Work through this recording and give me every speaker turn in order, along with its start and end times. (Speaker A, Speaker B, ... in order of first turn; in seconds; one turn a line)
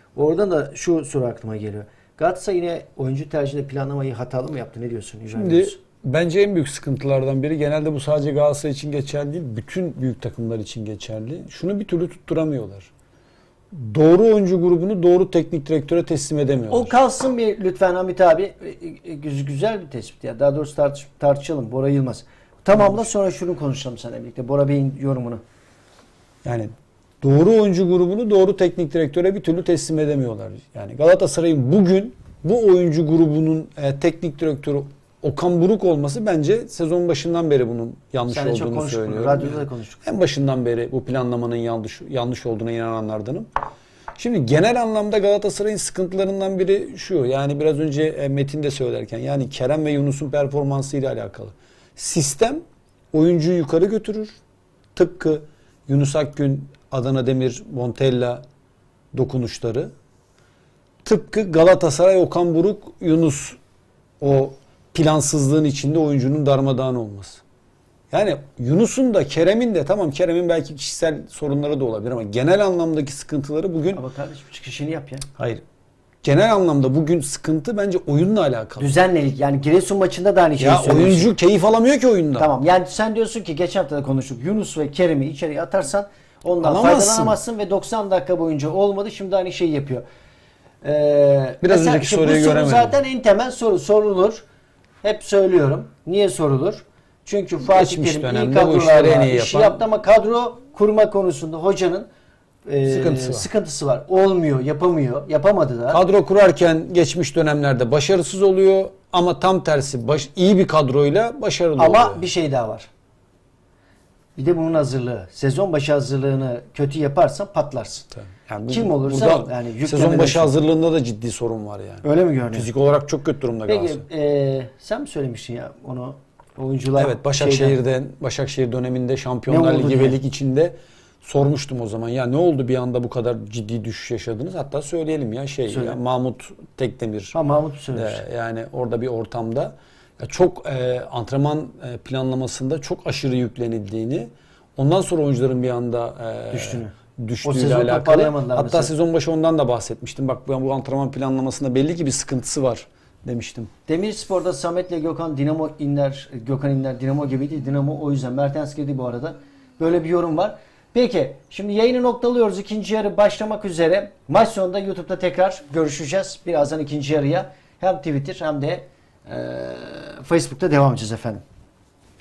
Speaker A: 0.1-5.8
Speaker B: 5.3-12.9
Speaker B: 13.7-16.9
Speaker A: 16.7-25.4
Speaker B: 22.7-23.1
Speaker B: 26.4-26.7
Speaker B: 27.2-43.5
Speaker A: 38.3-40.1
Speaker B: 44.2-54.4
Speaker B: 54.9-58.4
Speaker B: 59.1-59.9
Speaker B: 61.0-63.6
Speaker B: 64.2-67.4
Speaker B: 68.1-74.0
Speaker A: 73.9-75.2
Speaker B: 75.3-75.6
Speaker B: 76.2-78.9
Speaker A: 78.8-81.3
Speaker B: 80.6-82.5
Speaker A: 82.4-90.0
Speaker B: 86.6-87.4
Speaker A: 90.8-94.4
Speaker B: 91.6-93.0
Speaker A: 95.0-102.1
Speaker B: 97.6-99.8
Speaker A: 102.7-106.0
Speaker B: 102.9-103.5
Speaker B: 105.9-112.2
Speaker A: 111.8-112.9
Speaker A: 114.3-118.1
Speaker B: 118.1-124.0
Speaker A: 118.7-120.5
Speaker A: 122.0-122.7
Speaker A: 123.7-127.8
Speaker B: 127.0-137.3
Speaker A: 129.5-130.2
Speaker A: 135.7-136.0
Speaker A: 137.3-138.2
Speaker B: 137.9-153.7
Speaker A: 146.5-146.9
Speaker A: 147.4-148.9
Speaker A: 153.9-171.4